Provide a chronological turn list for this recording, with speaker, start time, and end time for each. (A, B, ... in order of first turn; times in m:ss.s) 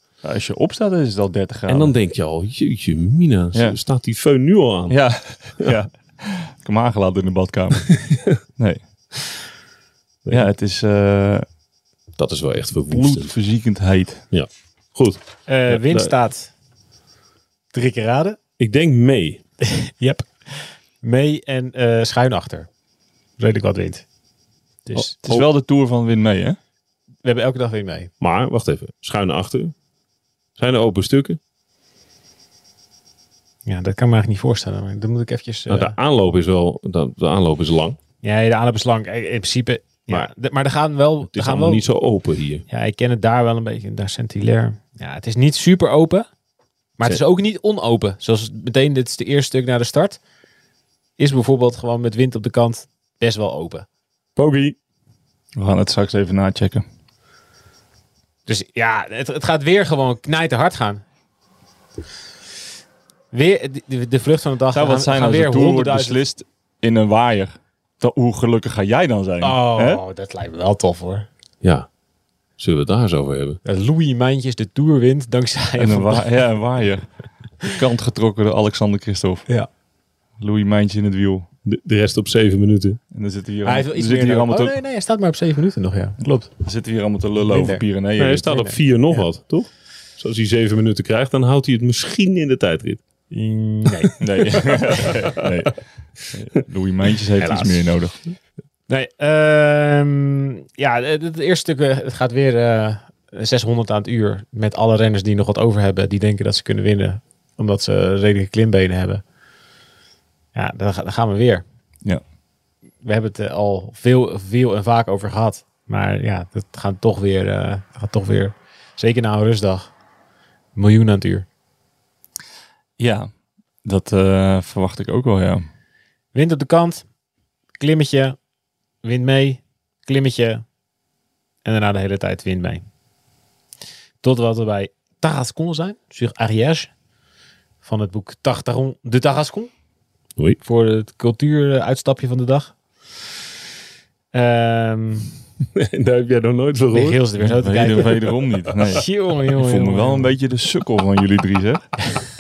0:00.2-0:01.9 A
0:01.7-0:05.1 B
0:04.9-0:07.9 A
0:10.3-0:11.4 A
0:12.2-0:13.3 B
0:12.9-0:14.2 A
0:14.3-0:16.1 B
0:15.4-0:16.5 C
0:17.7-0:18.4 C
0:18.6-0:19.4 B
0:19.6-0:22.7 C
0:23.4-0:24.0 C
0:24.8-0:25.2 C
0:25.0-0:25.4 B
0:25.1-0:26.6 A
0:27.2-0:28.1 C
0:28.2-0:29.7 B
0:30.6-0:31.4 B
0:33.6-0:36.0 C
0:35.7-0:38.0 B
0:38.2-0:41.8 C
0:41.2-0:42.6 B
0:42.7-0:46.3 C
0:47.0-0:50.2 C
0:51.2-0:53.8 C
0:54.4-0:54.8 B
0:55.6-0:56.8 A
0:58.4-1:01.0 C
1:03.3-1:06.2 C
1:04.7-1:10.0 A
1:09.4-1:11.3 C
1:11.6-1:11.9 B
1:12.6-1:13.6 B
1:13.6-1:16.5 C
1:15.8-1:19.5 A
1:20.4-1:21.5 A
1:21.6-1:23.0 B
1:23.1-1:24.8 A
1:23.6-1:26.5 C
1:26.6-1:28.5 A
1:27.5-1:27.8 C
1:28.2-1:33.0 B
1:28.4-1:29.2 C
1:33.3-1:34.2 C
1:34.2-1:38.2 A
1:37.4-1:38.0 C
1:38.9-1:49.2 C
1:50.5-1:51.6 C
1:53.0-1:59.9 C
2:00.7-2:01.4 C
2:03.0-2:03.3 A
2:03.8-2:05.6 A
2:06.3-2:07.0 C
2:07.8-2:08.4 C
2:09.0-2:10.6 C
2:11.6-2:12.8 C
2:14.2-2:16.9 C
2:17.8-2:19.7 C
2:20.6-2:22.7 C
2:24.3-2:25.3 C
2:25.7-2:27.2 B
2:26.9-2:28.2 C
2:27.4-2:32.0 A
2:28.9-2:30.4 C